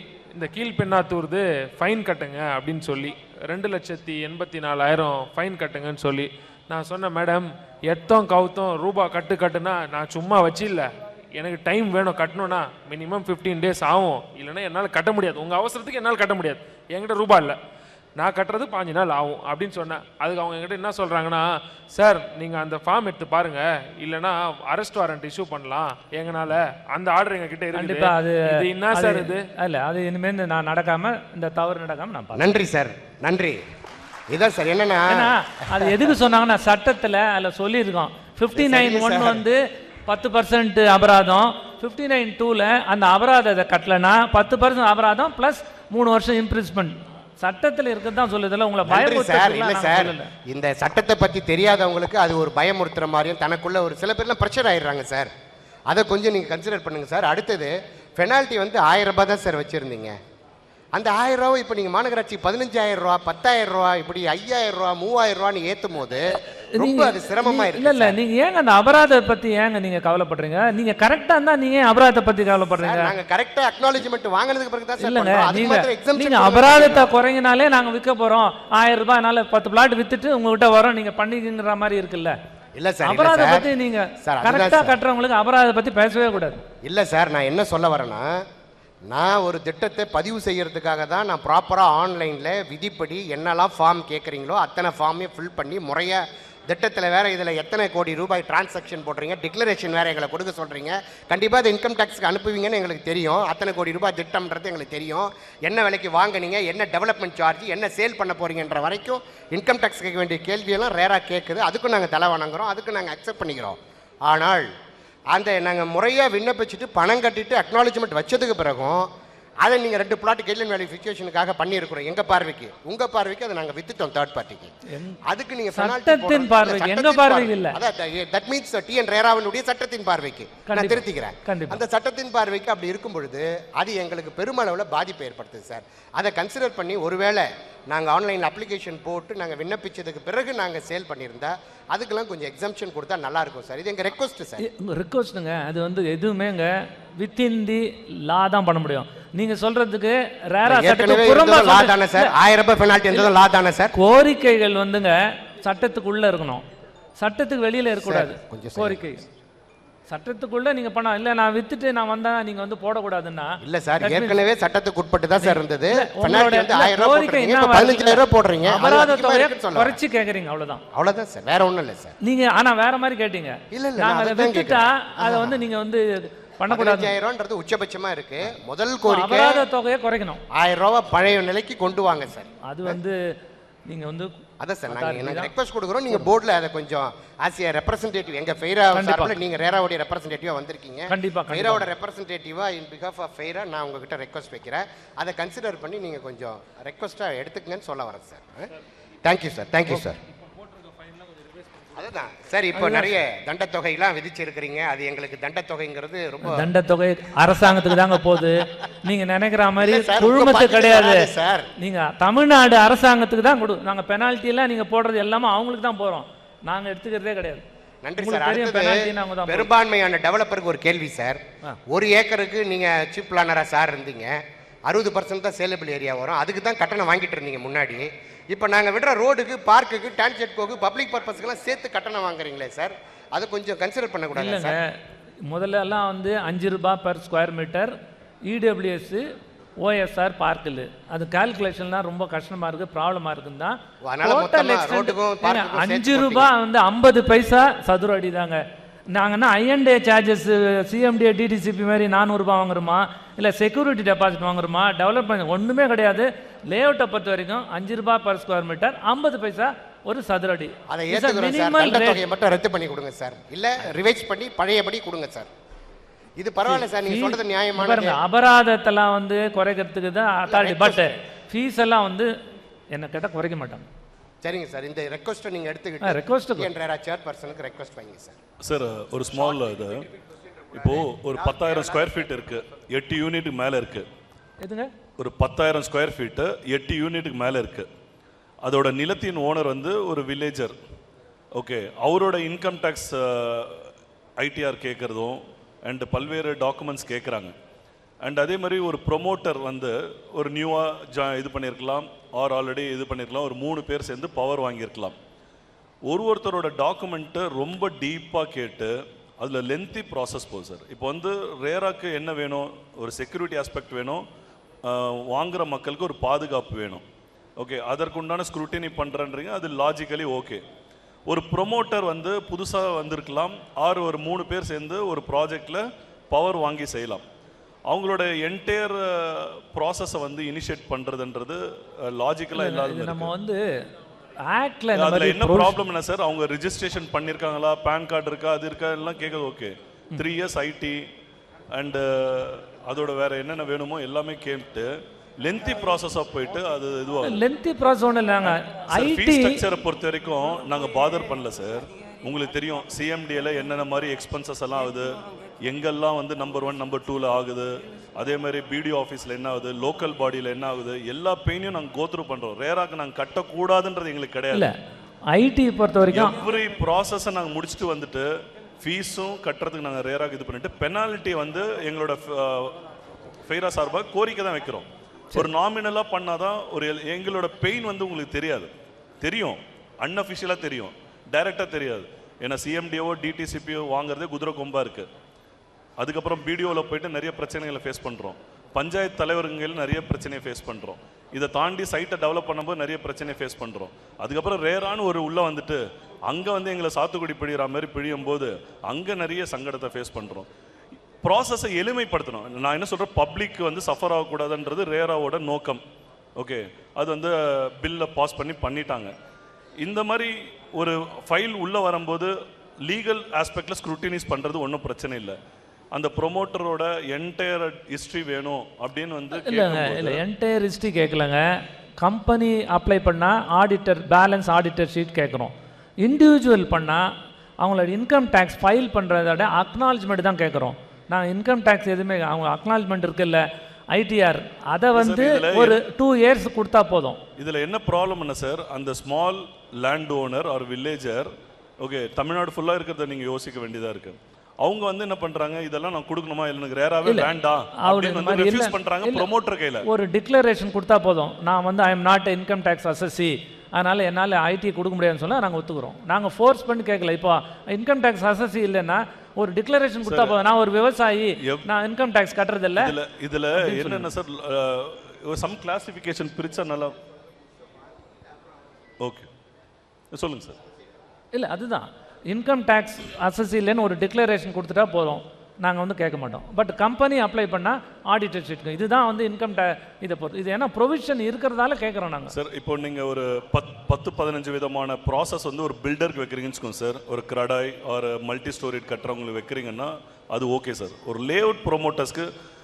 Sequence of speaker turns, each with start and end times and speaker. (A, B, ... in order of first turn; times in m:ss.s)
0:00.3-0:17.6 A
0:18.2-0:29.4 A
0:27.7-0:32.4 B
0:32.3-0:33.6 C
0:34.3-0:36.0 C
0:35.1-0:50.3 B
0:38.5-0:39.4 C
0:48.9-0:55.3 C
0:55.9-1:00.2 C
1:00.9-1:08.2 C
1:06.8-1:13.1 B
1:12.8-1:17.1 C
1:15.0-1:22.4 B
1:22.8-1:23.7 C
1:23.0-1:26.6 B
1:24.2-1:25.0 C
1:26.8-1:28.4 C
1:29.1-1:54.7 C
1:55.3-1:59.1 C
1:59.6-2:04.7 C
2:04.9-2:05.2 B
2:05.2-2:24.7 C
2:05.7-2:07.8 B
2:10.7-2:11.8 B
2:24.6-2:32.3 B
2:30.6-2:33.9 C
2:33.9-2:36.6 B
2:37.2-2:39.2 B
2:38.0-2:39.1 C
2:40.1-2:44.4 B
2:43.6-2:50.0 C
2:45.4-2:50.8 B
2:50.9-2:52.1 C
2:52.2-2:57.1 B
2:53.7-2:55.6 C
2:56.7-2:59.6 C
2:59.0-3:00.4 B
3:00.5-3:03.0 C
3:02.6-3:03.2 B
3:03.9-3:04.3 B
3:04.6-3:18.7 C
3:04.9-3:05.5 B
3:08.9-3:09.3 B
3:11.1-3:11.8 B
3:19.2-3:20.2 C
3:21.9-3:26.7 C
3:22.7-3:23.1 B
3:26.4-3:37.6 B
3:29.8-3:31.7 C
3:38.0-3:54.8 C
3:38.2-3:39.7 B
3:54.3-3:57.9 B
3:58.4-3:59.2 B
3:59.8-4:08.6 B
4:04.0-4:06.5 C
4:09.1-4:22.2 B
4:20.9-4:25.5 C
4:26.4-4:28.2 C
4:26.7-4:32.3 B
4:30.5-4:31.1 C
4:32.9-4:33.8 B
4:34.4-4:38.4 C
4:36.0-4:36.7 B
4:38.6-4:40.1 D
4:40.6-4:42.2 C
4:40.8-4:44.1 D
4:44.6-4:44.9 B
4:45.2-4:47.9 D
4:48.6-4:50.8 D
4:51.6-4:57.5 D
4:58.2-5:05.2 D
5:06.1-5:14.2 D
5:14.8-5:17.0 D
5:17.6-5:20.6 D
5:21.3-5:27.2 D
5:27.9-5:33.3 D
5:32.5-5:33.6 B
5:34.4-5:35.8 B
5:34.9-5:41.0 D
5:41.7-5:44.9 D
5:45.4-5:47.4 D
5:47.2-5:49.6 B
5:48.9-6:04.7 D
6:05.3-6:06.4 B
6:06.1-6:08.3 D
6:08.8-6:12.8 D
6:13.5-6:18.7 D
6:19.2-6:25.1 D
6:26.0-6:40.5 D
6:41.2-6:45.8 D
6:46.4-6:49.1 D
6:49.8-6:52.3 D
6:52.8-6:55.4 D
6:55.9-7:00.2 D
6:59.4-7:01.4 B
7:02.0-7:07.0 B
7:07.6-7:17.2 B
7:14.9-7:15.8 D
7:17.4-7:21.3 D
7:21.8-7:29.8 D
7:27.8-7:29.3 B
7:29.8-7:42.9 B
7:40.0-7:40.4 D
7:42.8-7:46.9 D
7:43.6-7:44.1 B
7:49.0-7:49.3 D
7:50.1-7:50.6 D
7:51.3-8:02.3 B
8:02.3-8:12.3 D